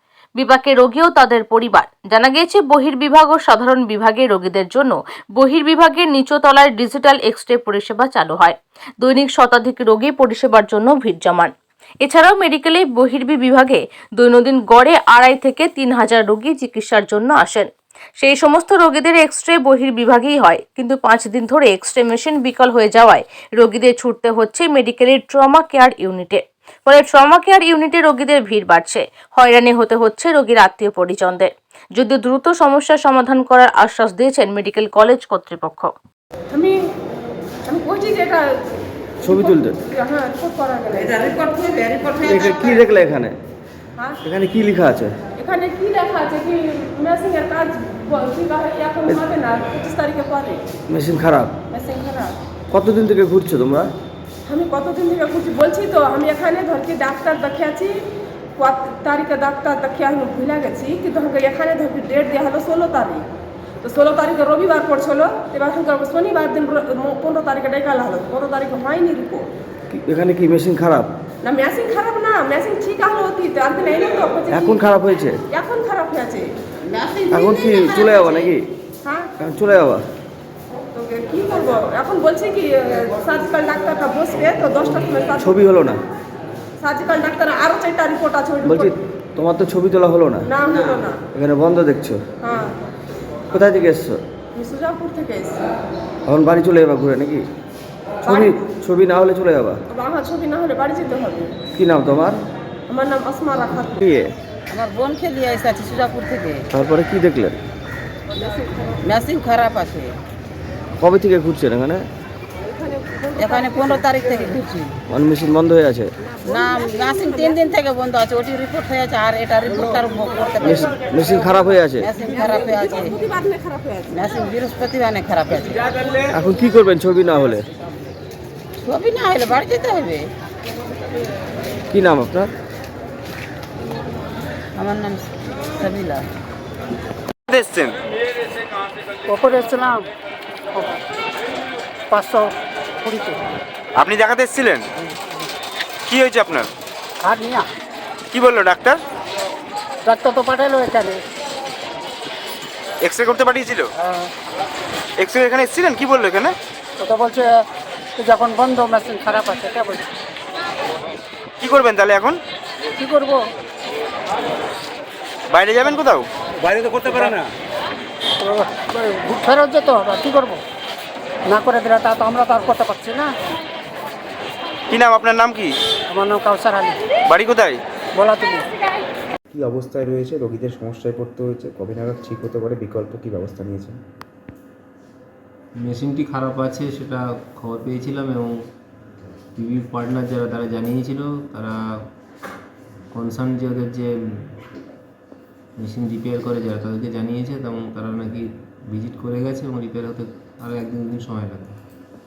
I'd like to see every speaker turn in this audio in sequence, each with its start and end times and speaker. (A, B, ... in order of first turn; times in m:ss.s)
0:00.4-0:11.5 A
0:12.0-0:17.7 A
0:18.2-0:35.9 A
0:36.5-0:36.8 B
0:37.6-0:41.5 B
0:39.2-0:39.8 C
0:41.2-0:42.8 D
0:42.2-0:43.4 C
0:44.2-0:45.2 C
0:45.4-0:50.6 B
0:50.9-0:51.6 C
0:51.7-0:52.3 B
0:52.7-0:53.9 C
0:54.4-0:58.0 B
0:58.6-1:03.2 B
1:03.8-1:09.5 B
1:09.9-1:11.1 C
1:11.4-1:14.8 B
1:14.5-1:15.4 C
1:15.5-1:16.5 B
1:16.9-1:18.5 D
1:17.3-1:18.6 C
1:19.4-1:20.0 C
1:20.9-1:25.6 B
1:25.4-1:26.0 C
1:26.8-1:28.9 B
1:28.6-1:30.5 C
1:30.5-1:31.2 B
1:31.3-1:32.2 C
1:32.4-1:32.8 B
1:33.5-1:34.2 C
1:34.5-1:35.6 B
1:36.3-1:37.4 C
1:38.2-1:39.8 C
1:38.2-1:38.6 B
1:39.9-1:41.6 B
1:41.7-1:42.4 C
1:42.9-1:44.0 B
1:44.0-1:44.3 C
1:44.7-1:46.6 D
1:46.7-1:47.6 C
1:49.0-1:50.1 D
1:51.0-1:52.0 C
1:53.4-1:54.9 D
1:55.1-1:56.1 C
1:56.4-2:01.0 D
2:00.6-2:02.1 C
2:02.0-2:03.2 D
2:03.2-2:04.0 B
2:04.1-2:05.9 D
2:06.3-2:07.6 C
2:08.8-2:10.3 D
2:11.9-2:12.5 C
2:14.8-2:16.2 D
2:17.5-2:17.9 E
2:19.3-2:20.0 F
2:22.1-2:22.5 F
2:23.0-2:23.4 F
2:24.0-2:24.8 E
2:26.1-2:26.7 E
2:27.2-2:27.6 F
2:28.3-2:29.0 E
2:30.0-2:31.2 F
2:33.0-2:33.9 E
2:34.0-2:34.3 F
2:35.2-2:36.6 E
2:37.0-2:37.5 F
2:38.2-2:40.0 F
2:41.6-2:42.4 E
2:43.0-2:43.4 F
2:45.5-2:46.3 E
2:47.0-2:47.4 F
2:48.4-2:50.6 F
2:51.5-2:53.3 F
2:54.9-2:55.7 E
2:56.1-2:57.0 F
2:57.3-2:57.8 E
2:58.2-2:58.6 F
2:59.5-3:04.0 G
3:05.8-3:08.5 H
3:09.6-3:11.8 H
3:13.1-3:14.5 H
3:15.8-3:21.8 H